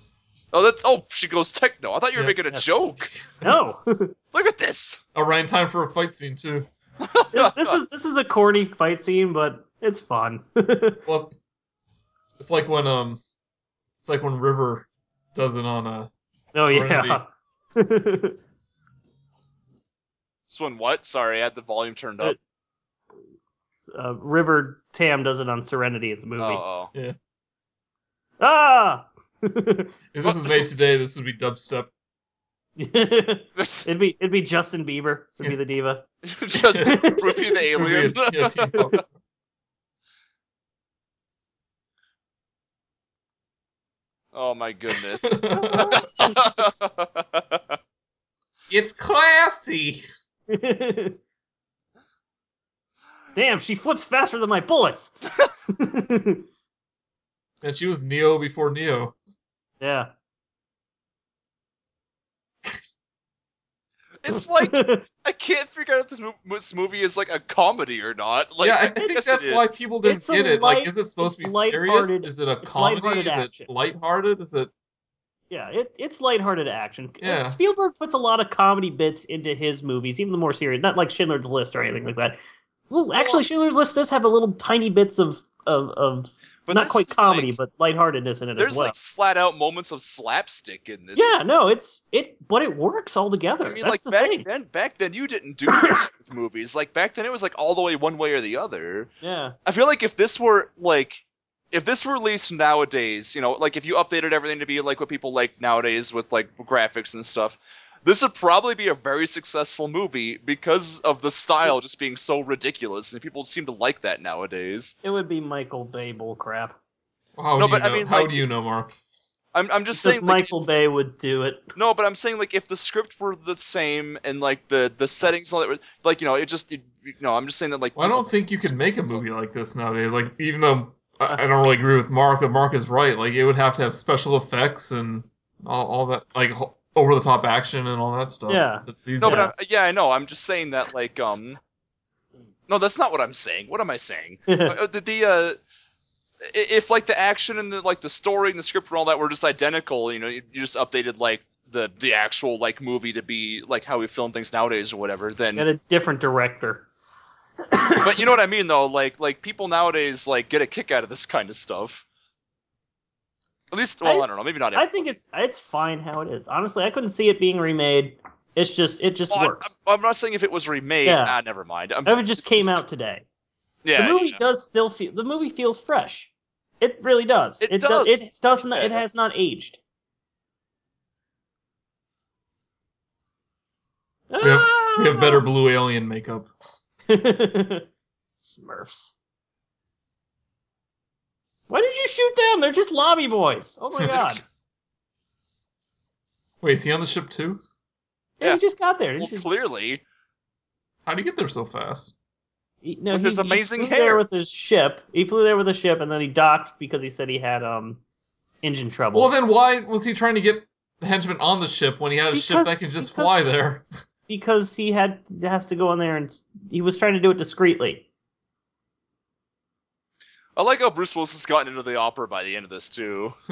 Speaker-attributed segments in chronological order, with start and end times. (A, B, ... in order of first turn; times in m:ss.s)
0:00.5-0:03.1 A
0:03.4-0:04.1 B
0:04.3-0:05.0 A
0:05.1-0:06.7 C
0:07.0-0:07.8 A
0:07.3-0:11.0 B
0:11.0-0:11.3 C
0:12.4-0:13.2 C
0:14.0-0:17.2 C
0:16.5-0:18.4 B
0:20.5-0:22.4 A
0:23.8-0:26.6 B
0:26.4-0:26.9 A
0:28.4-0:29.9 B
0:30.1-0:31.9 C
0:30.2-0:30.6 A
0:32.8-0:36.1 B
0:33.6-0:33.8 A
0:36.2-0:39.0 A
0:36.6-0:37.0 C
0:36.8-0:37.6 B
0:37.7-0:39.1 C
0:44.3-0:47.8 A
0:45.1-0:46.1 C
0:45.5-0:46.0 B
0:48.7-0:50.0 C
0:50.5-0:51.2 B
0:53.3-0:55.1 B
0:55.7-0:56.4 B
0:57.6-0:59.2 C
0:59.8-1:00.1 B
1:04.2-1:09.7 A
1:04.6-1:05.0 B
1:08.6-1:14.7 C
1:08.9-1:09.2 B
1:10.0-1:13.7 B
1:15.5-1:22.4 B
1:17.2-1:17.6 C
1:22.9-1:28.9 B
1:23.2-1:23.4 A
1:26.6-1:27.6 A
1:28.6-1:31.3 A
1:31.1-1:34.5 B
1:33.6-1:39.1 A
1:35.8-1:36.0 B
1:39.2-1:39.5 B
1:39.6-1:54.9 A
1:55.0-1:56.8 B
1:57.4-1:59.0 C
1:57.6-1:58.4 A
1:59.5-2:00.6 A
2:00.0-2:01.6 B
2:01.7-2:09.2 A
2:08.0-2:19.6 C
2:18.5-2:19.5 B
2:19.2-2:21.6 A
2:22.7-2:25.6 A
2:24.5-2:24.7 B
2:26.4-2:35.6 A
2:35.5-2:36.9 B
2:37.7-2:38.2 B
2:38.0-2:42.0 A
2:43.7-2:45.1 A
2:44.0-2:49.7 B
2:49.3-2:52.8 A
2:51.0-2:51.4 B
2:52.0-2:53.2 B
2:53.8-2:54.4 A
2:53.9-2:59.8 B
2:57.6-2:59.0 A
3:04.3-3:05.4 B
3:04.4-3:06.5 C
3:07.1-3:07.9 B
3:08.4-3:09.1 B
3:11.7-3:14.4 B
3:14.1-3:14.4 A
3:16.6-3:17.6 C
3:18.4-3:19.5 B
3:19.2-3:20.0 A
3:21.0-3:22.1 C
3:22.8-3:28.0 B
3:23.1-3:24.2 A
3:28.6-3:29.3 B
3:29.1-3:33.8 C
3:32.3-3:33.5 B
3:34.3-3:38.0 B
3:40.6-3:43.4 A